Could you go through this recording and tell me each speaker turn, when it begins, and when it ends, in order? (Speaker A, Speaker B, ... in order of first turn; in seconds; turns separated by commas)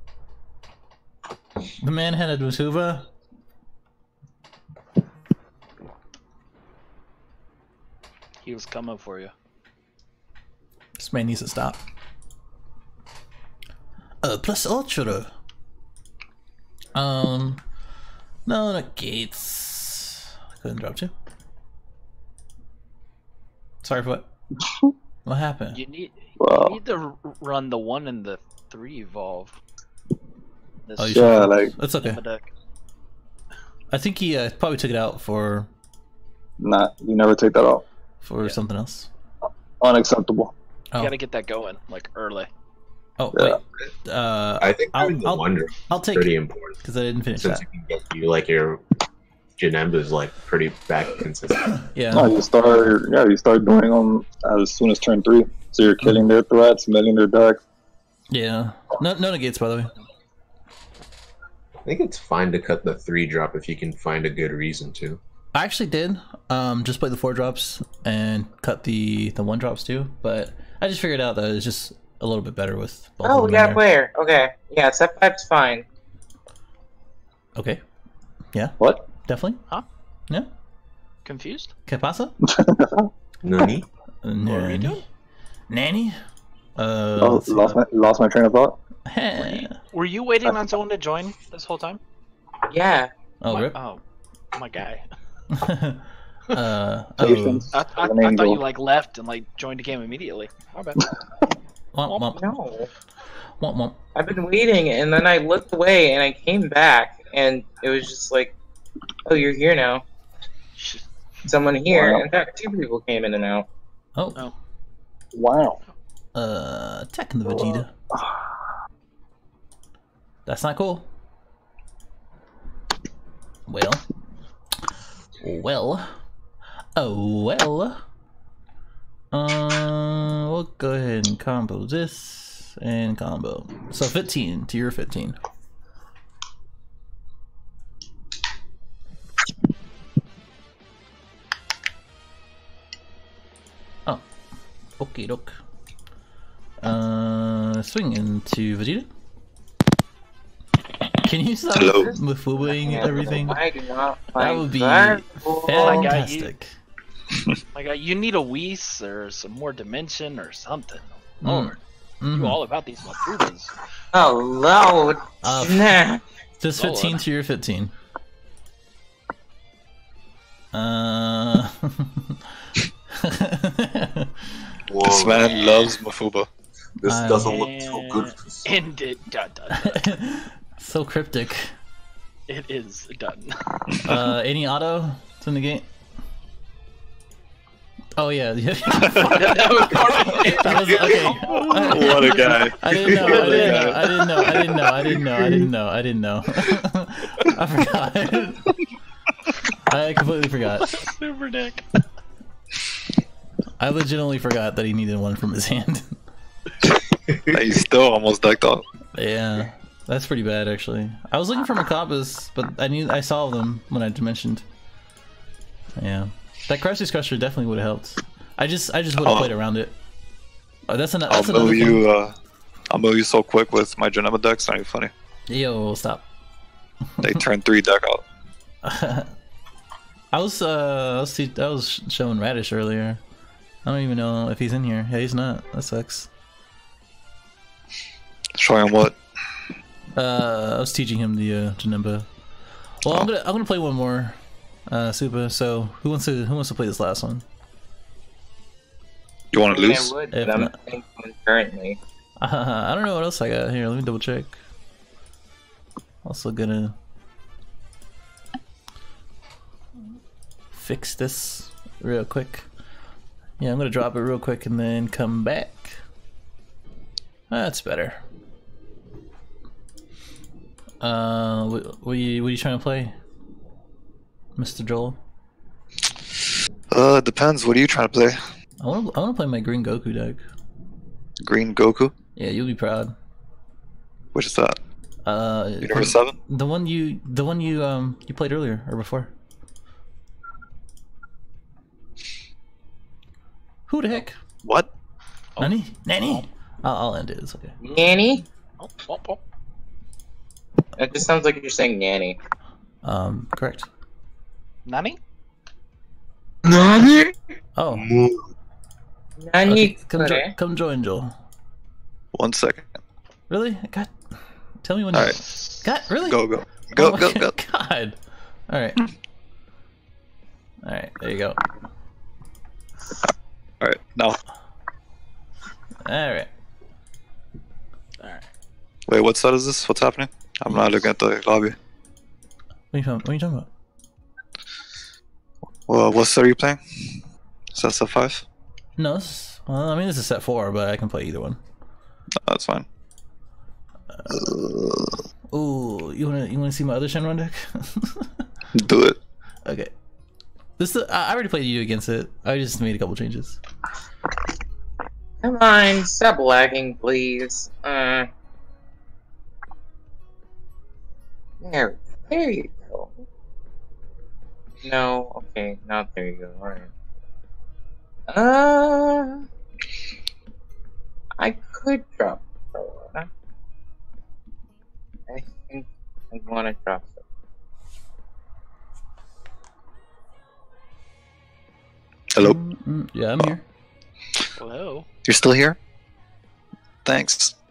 Speaker A: 1.8-3.0, Speaker B: 8.4-9.3, Speaker A: 11.0-11.8, Speaker A: 14.2-15.3, Speaker A: 16.9-17.6, Speaker A: 18.4-21.1, Speaker A: 23.8-24.3, Speaker A: 25.2-25.8, Speaker B: 25.7-29.5, Speaker C: 26.4-26.8, Speaker B: 30.9-32.5, Speaker A: 31.0-32.2, Speaker C: 31.1-31.7, Speaker A: 33.9-35.7, Speaker C: 36.6-37.8, Speaker A: 38.2-39.1, Speaker C: 39.8-40.5, Speaker B: 41.0-42.5, Speaker A: 43.2-47.6, Speaker C: 43.3-43.6, Speaker D: 44.6-46.8, Speaker D: 47.4-48.8, Speaker D: 49.6-51.7, Speaker A: 51.9-52.4, Speaker C: 52.1-57.6, Speaker A: 58.3-59.9, Speaker D: 61.9-65.2, Speaker A: 65.5-73.8, Speaker E: 73.2-75.8, Speaker A: 77.5-77.8, Speaker A: 78.5-79.6, Speaker C: 78.8-79.0, Speaker B: 81.2-81.7, Speaker A: 81.9-82.3, Speaker C: 82.4-83.1, Speaker D: 83.4-83.8, Speaker A: 84.2-85.0, Speaker B: 84.4-85.0, Speaker A: 85.7-86.2, Speaker A: 86.8-87.8, Speaker C: 87.2-88.8, Speaker A: 89.1-89.8, Speaker B: 89.4-92.0, Speaker E: 92.7-93.1, Speaker A: 93.4-93.8, Speaker B: 93.5-94.0, Speaker B: 94.5-95.0, Speaker A: 95.5-97.6, Speaker C: 97.2-98.6, Speaker B: 97.7-101.1, Speaker A: 101.9-102.4, Speaker B: 102.1-102.4, Speaker E: 102.3-102.9, Speaker A: 103.6-104.0, Speaker E: 104.1-108.5, Speaker E: 109.2-110.0, Speaker B: 110.8-111.1, Speaker E: 111.5-113.7, Speaker C: 111.9-112.2, Speaker A: 114.2-114.5, Speaker C: 115.3-115.8, Speaker A: 116.3-117.9, Speaker C: 117.5-118.4, Speaker A: 120.5-121.0, Speaker A: 123.7-124.0, Speaker A: 125.4-126.1, Speaker A: 127.0-128.0, Speaker A: 129.3-135.4, Speaker A: 145.0-145.6, Speaker A: 146.8-149.1, Speaker A: 151.2-153.6, Speaker F: 151.7-152.1, Speaker E: 152.0-156.1, Speaker A: 154.3-156.7, Speaker B: 155.7-156.5, Speaker B: 157.7-161.8, Speaker A: 161.4-162.6, Speaker B: 162.3-163.7, Speaker E: 164.1-166.2, Speaker A: 165.4-166.0, Speaker A: 166.6-167.9, Speaker B: 166.8-167.2, Speaker A: 170.7-172.3, Speaker A: 173.1-174.5, Speaker D: 174.9-175.8, Speaker F: 175.0-176.5, Speaker D: 177.0-178.8, Speaker A: 177.0-177.6, Speaker B: 177.4-180.1, Speaker A: 179.7-181.7, Speaker B: 182.5-184.1, Speaker A: 184.0-185.8, Speaker A: 188.2-198.8, Speaker B: 189.1-194.4, Speaker D: 190.8-191.2, Speaker F: 191.6-194.0, Speaker D: 193.1-193.8, Speaker A: 199.9-201.0, Speaker B: 200.9-201.8, Speaker A: 203.8-206.2, Speaker F: 207.5-208.8, Speaker A: 209.1-214.6, Speaker A: 216.0-219.9, Speaker F: 219.2-219.5, Speaker A: 220.9-222.0, Speaker F: 221.3-222.3, Speaker F: 222.9-225.1, Speaker A: 225.5-226.2, Speaker F: 227.2-228.2, Speaker A: 228.8-229.3, Speaker A: 230.3-233.2, Speaker A: 233.8-236.3, Speaker F: 238.5-239.2, Speaker A: 240.1-242.3, Speaker A: 243.0-247.4, Speaker F: 249.5-250.1, Speaker E: 249.7-252.0, Speaker A: 250.3-250.7, Speaker A: 252.4-254.6, Speaker A: 256.2-256.9, Speaker A: 260.7-262.7, Speaker A: 263.6-266.0, Speaker A: 267.5-268.2, Speaker A: 271.0-273.1, Speaker A: 274.6-275.2, Speaker F: 276.9-278.5, Speaker A: 278.8-280.4, Speaker F: 281.4-282.1, Speaker A: 282.4-283.1, Speaker F: 284.3-284.8, Speaker A: 285.2-289.3, Speaker F: 285.8-286.4, Speaker A: 293.9-294.4, Speaker F: 294.6-294.9, Speaker B: 295.6-296.4, Speaker A: 295.6-297.7, Speaker E: 297.8-298.4, Speaker B: 298.8-299.4, Speaker E: 300.9-302.4, Speaker A: 303.0-303.9, Speaker B: 304.9-305.2, Speaker E: 306.7-307.3, Speaker A: 307.8-308.1, Speaker D: 307.9-308.5, Speaker E: 309.4-310.5, Speaker A: 309.6-311.3, Speaker F: 312.3-312.9, Speaker A: 313.5-314.1, Speaker A: 314.8-316.4, Speaker F: 315.1-317.5, Speaker A: 316.9-318.2, Speaker A: 318.7-319.0, Speaker A: 320.8-321.7, Speaker F: 323.2-324.4, Speaker A: 326.0-326.5, Speaker B: 328.2-328.5, Speaker F: 329.1-331.8, Speaker A: 332.9-333.7, Speaker F: 335.9-338.4, Speaker A: 339.0-341.6, Speaker F: 342.4-342.9, Speaker A: 344.1-344.4, Speaker F: 344.3-345.2, Speaker A: 345.5-348.3, Speaker F: 348.7-349.2, Speaker A: 349.6-349.9, Speaker A: 350.8-353.6, Speaker E: 355.4-358.3, Speaker E: 361.6-363.1, Speaker E: 364.8-366.9, Speaker E: 368.3-369.4, Speaker E: 371.4-373.3, Speaker E: 375.3-377.2, Speaker F: 382.3-382.6, Speaker A: 382.4-383.6, Speaker B: 384.6-385.1, Speaker F: 385.2-385.8, Speaker F: 387.0-387.5